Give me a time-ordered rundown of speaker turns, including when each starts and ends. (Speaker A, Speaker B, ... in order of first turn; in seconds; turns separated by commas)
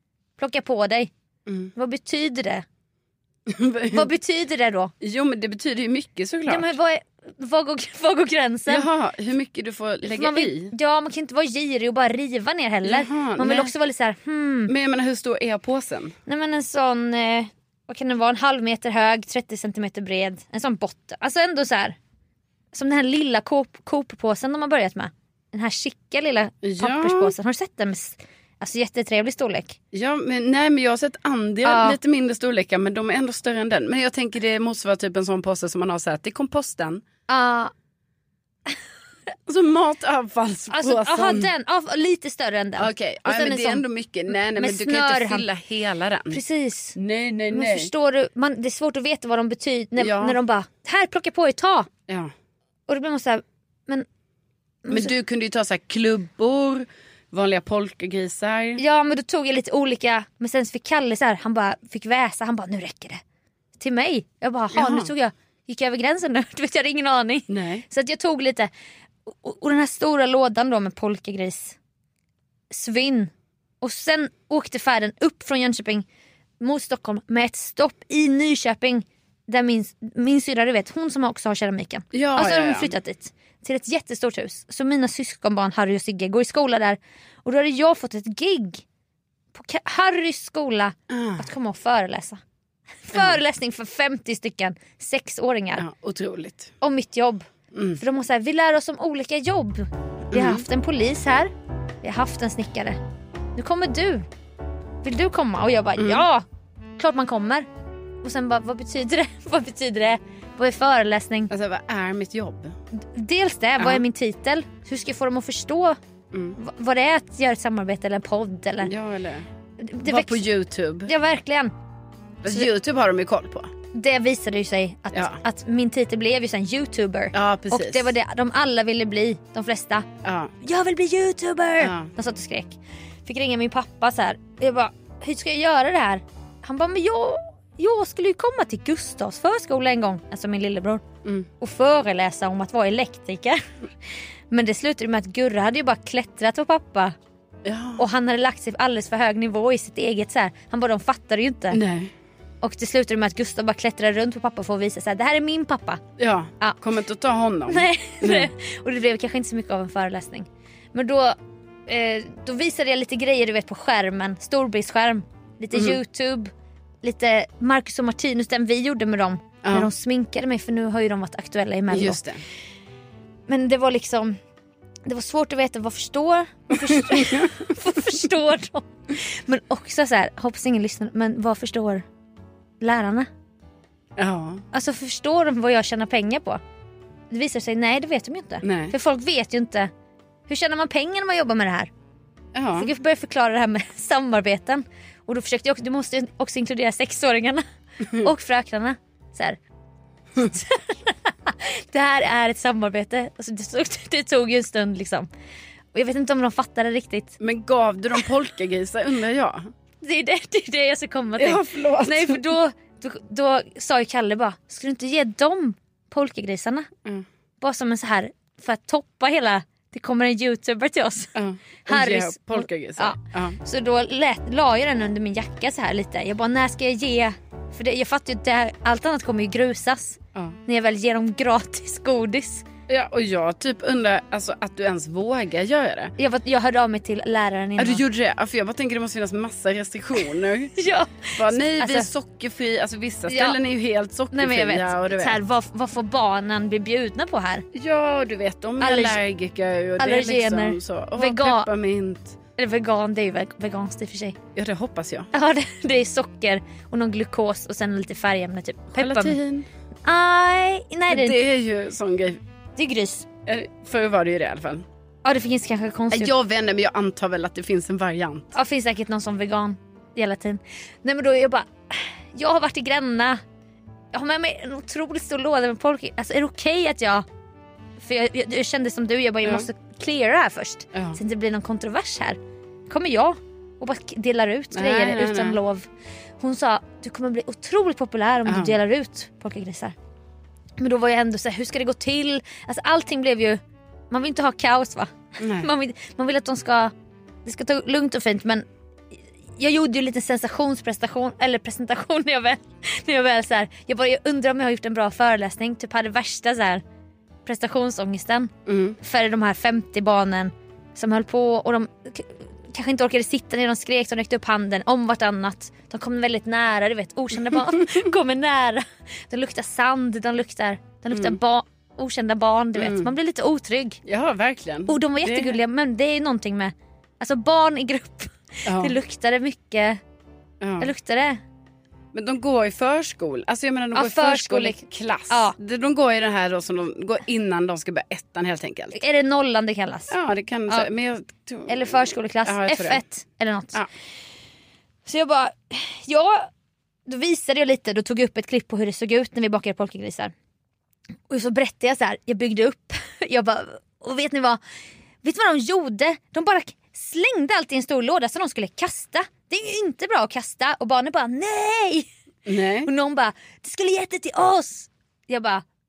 Speaker A: 0.4-1.1, Speaker B: 1.4-1.7, Speaker A: 1.7-2.6, Speaker B: 3.5-4.1, Speaker A: 3.9-4.9, Speaker B: 5.0-6.7, Speaker A: 6.5-8.9, Speaker B: 8.7-10.7, Speaker A: 10.1-14.7, Speaker B: 12.8-13.7, Speaker B: 14.7-16.1, Speaker A: 16.3-21.9, Speaker A: 22.7-29.8, Speaker B: 26.6-27.3, Speaker B: 29.9-37.0, Speaker A: 31.6-32.0, Speaker A: 37.3-37.7, Speaker B: 39.5-41.5, Speaker A: 40.7-45.5, Speaker B: 42.8-46.4, Speaker A: 46.3-47.0, Speaker B: 47.0-47.9, Speaker A: 47.5-51.9, Speaker B: 50.0-50.4, Speaker A: 52.9-54.0, Speaker A: 54.8-55.1, Speaker B: 54.9-58.8, Speaker A: 58.8-63.2, Speaker A: 63.8-68.7, Speaker B: 64.7-65.1, Speaker B: 67.5-67.8, Speaker A: 69.3-71.8, Speaker A: 72.7-76.0, Speaker A: 76.6-88.8, Speaker B: 82.1-82.9, Speaker A: 89.5-92.4, Speaker B: 91.1-91.5, Speaker A: 93.1-95.8, Speaker B: 95.8-96.7, Speaker A: 96.8-97.5, Speaker B: 97.7-98.0, Speaker A: 98.0-101.5, Speaker B: 100.3-100.6, Speaker A: 102.0-103.0, Speaker A: 103.5-104.2, Speaker A: 105.0-106.4, Speaker B: 106.0-106.2, Speaker A: 107.0-107.7, Speaker A: 108.2-111.5, Speaker B: 111.5-112.8, Speaker A: 113.0-116.0, Speaker B: 113.8-114.0, Speaker B: 116.3-116.6, Speaker A: 116.6-118.9, Speaker B: 118.8-119.5, Speaker A: 119.8-120.4, Speaker B: 120.0-121.1, Speaker A: 121.0-121.7, Speaker B: 122.4-123.7, Speaker A: 123.9-130.1, Speaker B: 125.1-125.4, Speaker B: 127.3-128.1, Speaker B: 130.2-130.5, Speaker A: 130.6-141.0, Speaker B: 131.8-132.1, Speaker A: 141.6-143.6, Speaker A: 144.5-147.1, Speaker B: 147.6-148.0, Speaker A: 148.0-151.8, Speaker B: 151.7-152.1, Speaker A: 152.6-156.0, Speaker B: 156.2-158.5, Speaker A: 157.7-166.5, Speaker B: 165.7-166.0, Speaker A: 167.0-172.2, Speaker B: 169.6-169.9, Speaker B: 171.9-172.4, Speaker A: 173.5-174.4, Speaker A: 175.1-182.0, Speaker B: 176.7-177.5, Speaker A: 182.8-183.3, Speaker B: 184.2-184.6, Speaker A: 184.7-186.6, Speaker A: 187.3-189.9, Speaker B: 188.6-188.9, Speaker A: 190.5-191.9, Speaker B: 192.5-192.9, Speaker A: 192.8-197.6, Speaker A: 198.2-199.6, Speaker A: 200.4-205.3, Speaker A: 205.9-207.4, Speaker B: 207.4-209.7, Speaker A: 210.0-216.9, Speaker B: 211.4-212.4, Speaker A: 217.6-221.3, Speaker B: 221.3-223.6, Speaker A: 221.9-232.7, Speaker B: 232.9-236.1, Speaker A: 236.2-238.0, Speaker B: 237.8-240.8, Speaker A: 240.8-242.1, Speaker B: 241.3-245.4, Speaker A: 243.3-243.6, Speaker A: 244.3-247.7, Speaker B: 247.7-252.4, Speaker A: 248.8-249.2, Speaker A: 250.0-251.7, Speaker A: 252.6-254.3, Speaker B: 254.6-255.3, Speaker A: 255.3-259.4, Speaker B: 259.0-259.7, Speaker A: 260.0-261.4, Speaker B: 261.1-262.4, Speaker A: 262.8-263.2, Speaker B: 263.4-264.8, Speaker A: 265.2-266.3, Speaker B: 266.1-268.5, Speaker A: 268.5-273.4, Speaker A: 274.1-277.2, Speaker A: 278.0-285.9, Speaker B: 280.9-281.2, Speaker B: 284.7-285.6, Speaker A: 286.4-289.9, Speaker B: 288.4-288.8, Speaker A: 290.8-296.9, Speaker B: 295.4-295.7, Speaker A: 297.4-306.8, Speaker A: 307.4-324.0, Speaker B: 308.6-309.0, Speaker B: 317.5-317.9, Speaker B: 321.1-321.4, Speaker B: 322.8-323.1, Speaker B: 324.1-325.6, Speaker A: 324.9-330.0, Speaker B: 328.6-328.9, Speaker B: 330.6-330.9, Speaker A: 330.8-331.4, Speaker B: 332.1-339.0, Speaker A: 333.9-335.5, Speaker A: 338.9-340.1, Speaker B: 340.1-343.0, Speaker A: 341.7-343.8, Speaker A: 345.1-346.5, Speaker A: 347.1-350.3, Speaker A: 351.3-354.6, Speaker A: 355.2-362.1, Speaker B: 362.4-362.9, Speaker A: 362.8-365.6